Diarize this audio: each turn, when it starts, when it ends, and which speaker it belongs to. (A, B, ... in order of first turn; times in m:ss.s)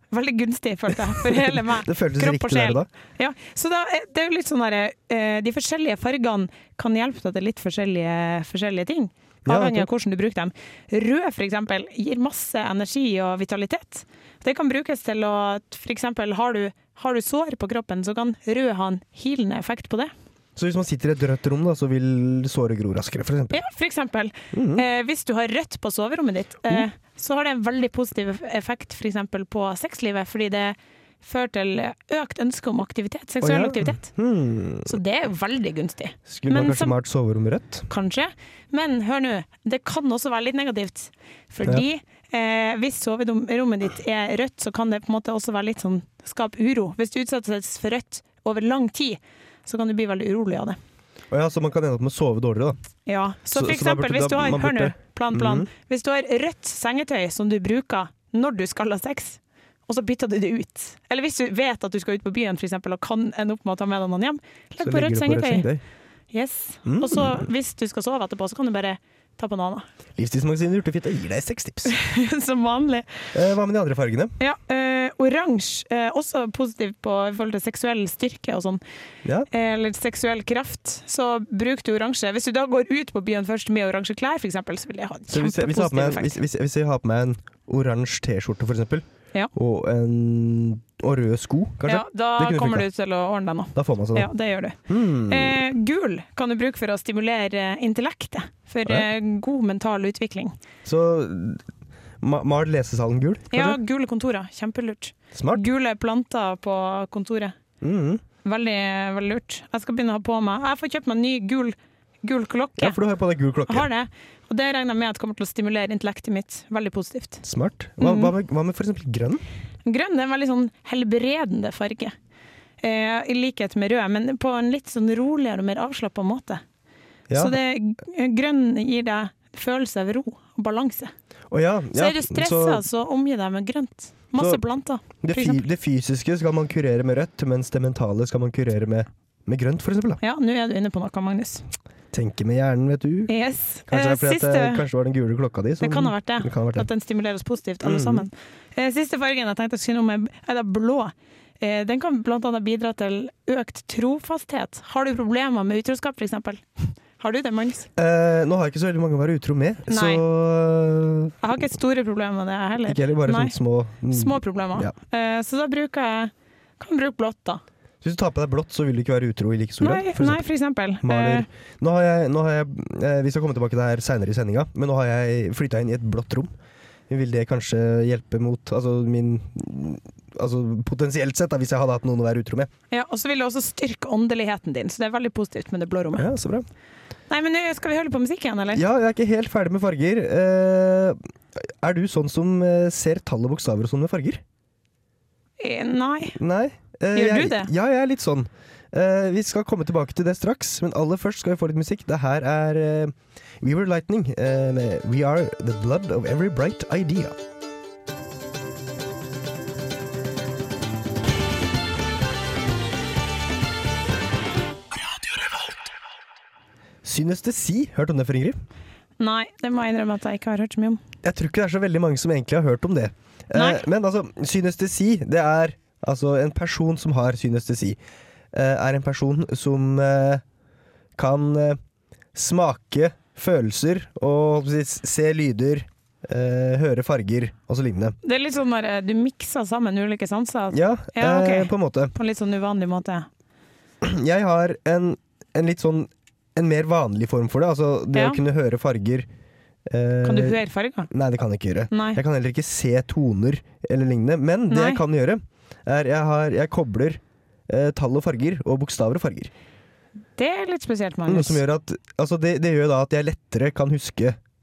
0:00.1-0:20.1 A
0:01.2-0:02.9 B
0:09.4-0:09.9 B
0:20.6-0:23.6 B
0:23.5-0:34.1 A
0:24.5-0:24.8 B
0:33.4-0:35.0 B
0:34.8-0:37.0 A
0:36.3-0:37.9 B
0:37.9-0:50.8 A
0:51.3-0:52.8 B
0:53.1-1:05.7 A
0:53.5-0:55.7 B
1:04.8-1:05.8 B
1:06.3-1:09.9 A
1:06.9-1:07.5 B
1:10.2-1:11.9 B
1:11.9-1:13.1 A
1:13.3-1:14.3 B
1:14.4-1:18.8 A
1:19.5-1:26.4 A
1:25.3-1:32.9 B
1:31.9-1:40.6 A
1:33.8-1:34.3 B
1:34.9-1:35.6 B
1:40.8-1:41.6 B
1:42.2-1:43.8 B
1:43.5-1:47.6 A
1:45.3-1:45.6 B
1:47.8-1:48.2 B
1:48.4-1:53.0 A
1:52.8-1:53.9 B
1:53.7-1:57.4 A
1:57.4-1:59.4 B
1:58.0-1:58.3 A
1:59.8-2:02.2 A
2:02.8-2:06.6 A
2:07.3-2:07.6 B
2:07.3-2:11.1 A
2:11.5-2:12.8 B
2:11.9-2:15.6 A
2:14.4-2:14.6 B
2:15.2-2:20.2 B
2:20.2-2:21.7 A
2:22.1-2:23.3 B
2:23.3-2:24.8 A
2:23.9-2:26.9 B
2:25.8-2:37.9 A
2:27.8-2:28.3 B
2:38.0-2:41.4 B
2:39.9-2:40.2 A
2:41.4-2:43.6 A
2:42.8-2:44.9 B
2:44.1-2:47.6 A
2:48.0-2:50.4 B
2:49.8-2:51.5 A
2:51.0-2:56.5 B
2:57.1-3:02.7 B
3:02.9-3:06.3 A
3:06.2-3:06.7 B
3:07.3-3:08.8 A
3:08.7-3:14.4 B
3:15.6-3:16.4 A
3:16.4-3:27.4 B
3:17.1-3:17.7 A
3:37.0-3:38.6 B
3:39.2-3:41.0 A
3:41.2-3:48.0 B
3:43.5-3:43.8 A
3:48.5-3:50.4 B
3:51.2-3:51.8 B
3:52.4-3:58.2 B
3:58.2-4:03.3 A
4:00.7-4:02.2 B
4:04.0-4:09.3 B
4:08.1-4:08.4 A
4:09.9-4:10.6 B
4:10.2-4:11.1 A
4:11.1-4:19.5 B
4:11.9-4:12.2 A
4:14.7-4:15.0 A
4:20.4-4:21.6 A
4:21.3-4:24.4 B